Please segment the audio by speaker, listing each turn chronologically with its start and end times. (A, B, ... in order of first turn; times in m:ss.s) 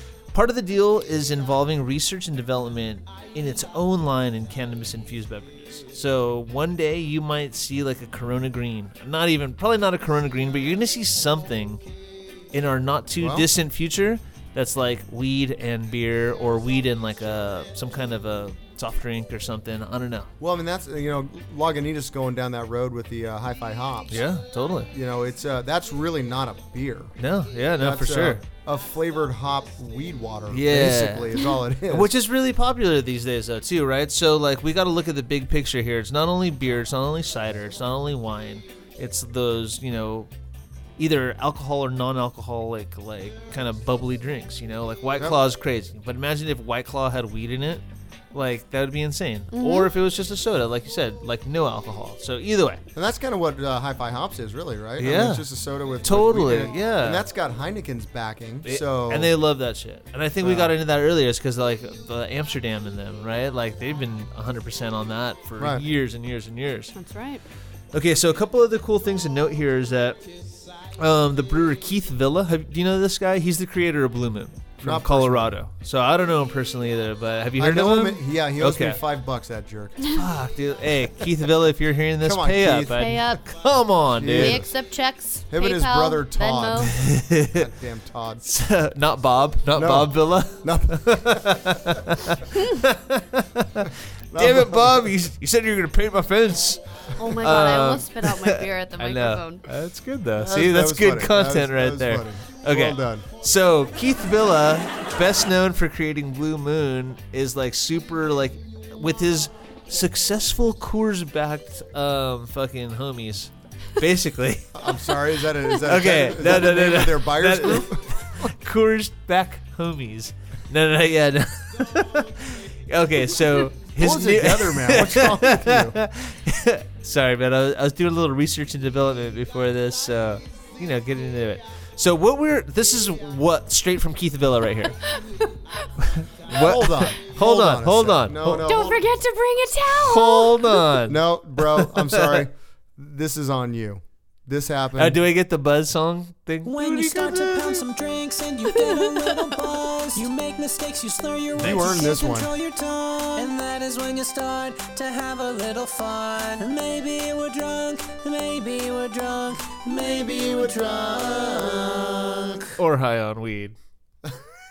0:00.3-0:11.8 A
0:12.5-0:20.3 A
0:13.2-0:13.5 B
0:20.4-0:24.3 B
0:24.1-0:24.9 A
0:24.9-0:27.1 B
0:27.2-0:28.4 A
0:27.8-0:32.1 B
0:30.5-0:31.4 A
0:31.9-0:40.3 A
0:41.0-0:47.8 A
0:48.3-0:52.8 A
0:49.5-0:49.9 C
0:53.0-0:59.3 B
0:55.0-0:55.4 A
0:56.0-0:57.2 A
0:58.6-1:07.0 A
1:00.4-1:00.7 B
1:05.6-1:05.8 B
1:06.9-1:07.4 C
1:07.9-1:10.2 A
1:11.0-1:19.0 A
1:14.8-1:15.6 B
1:17.6-1:20.1 B
1:20.1-1:24.6 A
1:22.2-1:23.3 B
1:23.0-1:23.4 C
1:24.2-1:24.7 B
1:24.3-1:26.9 C
1:25.5-1:28.4 B
1:26.9-1:27.7 A
1:28.4-1:54.7 A
1:29.8-1:31.6 B
1:34.3-1:35.1 B
1:37.2-1:39.7 C
1:40.4-1:43.3 B
1:54.7-1:58.5 B
1:55.8-2:15.0 A
2:04.0-2:06.0 B
2:15.0-2:15.9 C
2:16.0-2:18.7 A
2:16.5-2:19.0 B
2:18.6-2:20.8 C
2:19.9-2:22.5 A
2:21.0-2:25.2 B
2:25.0-2:27.8 A
2:26.6-2:41.0 D
2:31.6-2:32.5 B
2:31.6-2:32.0 A
2:39.9-2:42.7 B
2:42.8-2:43.8 A